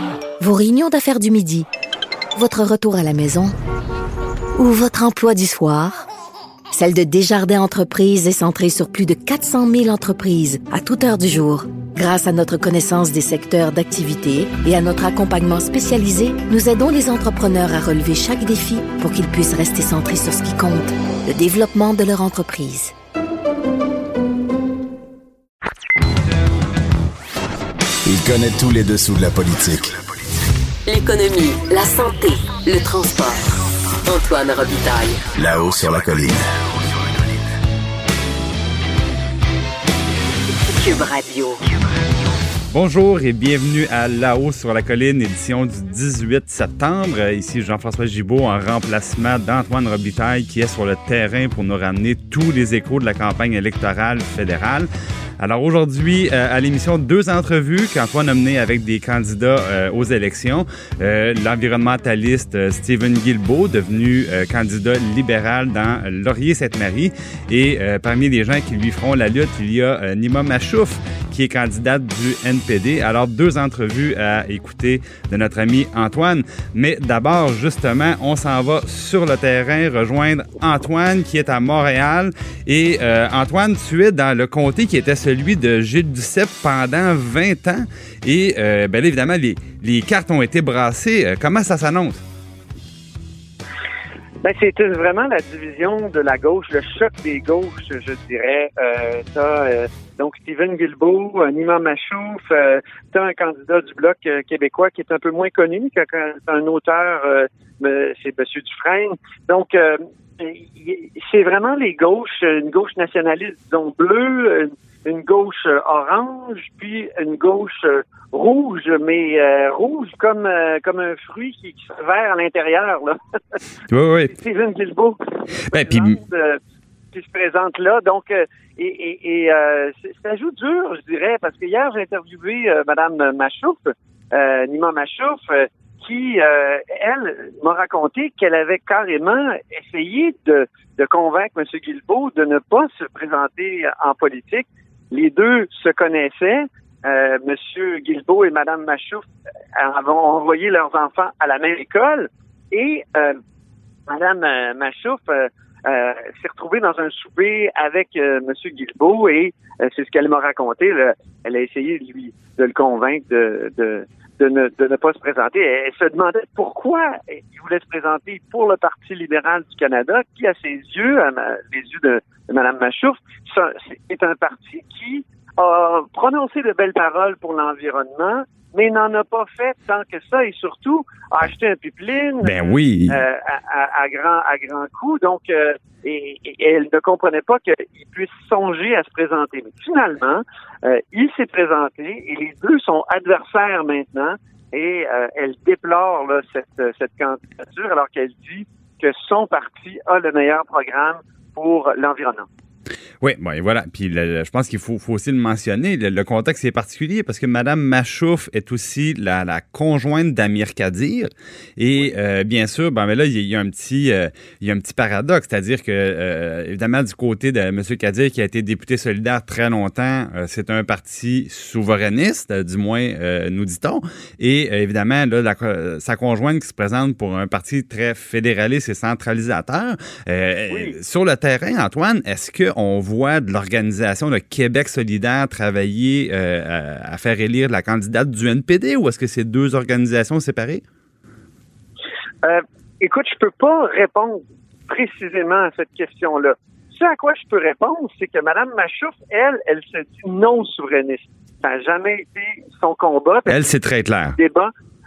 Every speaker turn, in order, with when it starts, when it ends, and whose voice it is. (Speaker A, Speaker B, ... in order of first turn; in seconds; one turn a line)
Speaker A: 0.4-1.7
Speaker A: 2.4-3.5
Speaker A: 4.6-6.1
Speaker A: 6.7-22.9
Speaker B: 28.1-30.0
Speaker C: 30.9-33.4
Speaker C: 34.1-35.2
Speaker B: 35.3-36.5
Speaker C: 40.8-41.6
Speaker D: 42.7-54.9
Speaker D: 55.4-92.2
Speaker E: 94.4-123.1
Speaker D: 123.9-124.3
Speaker E: 124.3-126.6
Speaker D: 125.7-126.2
Speaker E: 127.1-153.4
Speaker E: 154.1-202.5
Speaker D: 182.4-183.2
Speaker D: 203.2-240.8
Speaker E: 230.7-231.0
Speaker E: 242.4-253.6
Speaker D: 253.5-254.4
Speaker E: 254.3-254.7